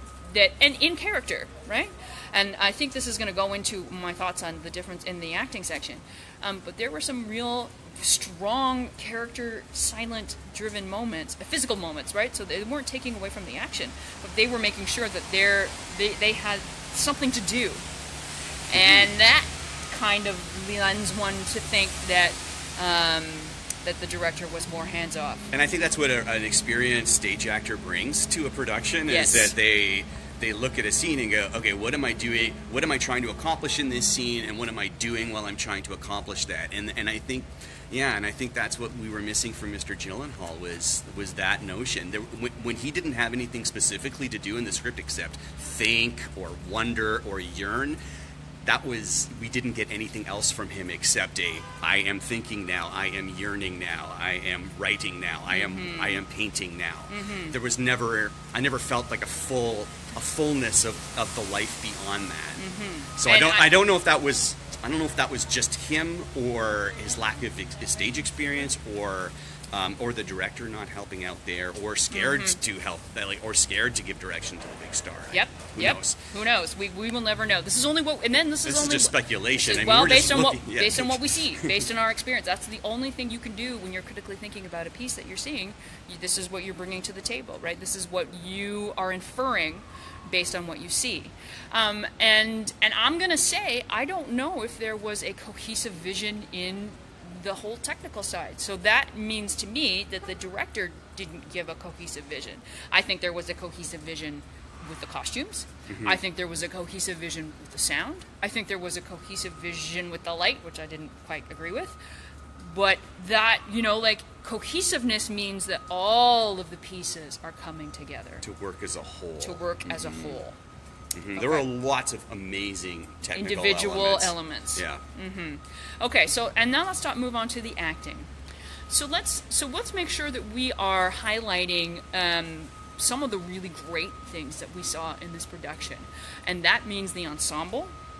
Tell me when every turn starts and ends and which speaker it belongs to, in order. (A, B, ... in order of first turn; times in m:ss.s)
0:00.2-0:17.8 A
0:18.7-0:25.5 A
0:18.7-0:19.1 B
0:25.5-0:48.0 B
0:29.1-0:29.5 A
0:48.6-1:02.6 B
0:55.5-0:56.2 A
0:57.1-0:57.5 A
1:02.6-1:03.8 A
1:03.2-1:16.2 B
1:12.1-1:12.6 A
1:15.3-1:52.0 A
1:18.6-1:21.9 B
1:45.9-1:46.2 B
1:52.6-1:58.4 A
1:58.4-2:00.4 B
1:59.4-2:00.6 A
2:01.1-2:05.0 B
2:01.3-2:01.7 A
2:03.3-2:08.3 A
2:08.9-2:17.9 A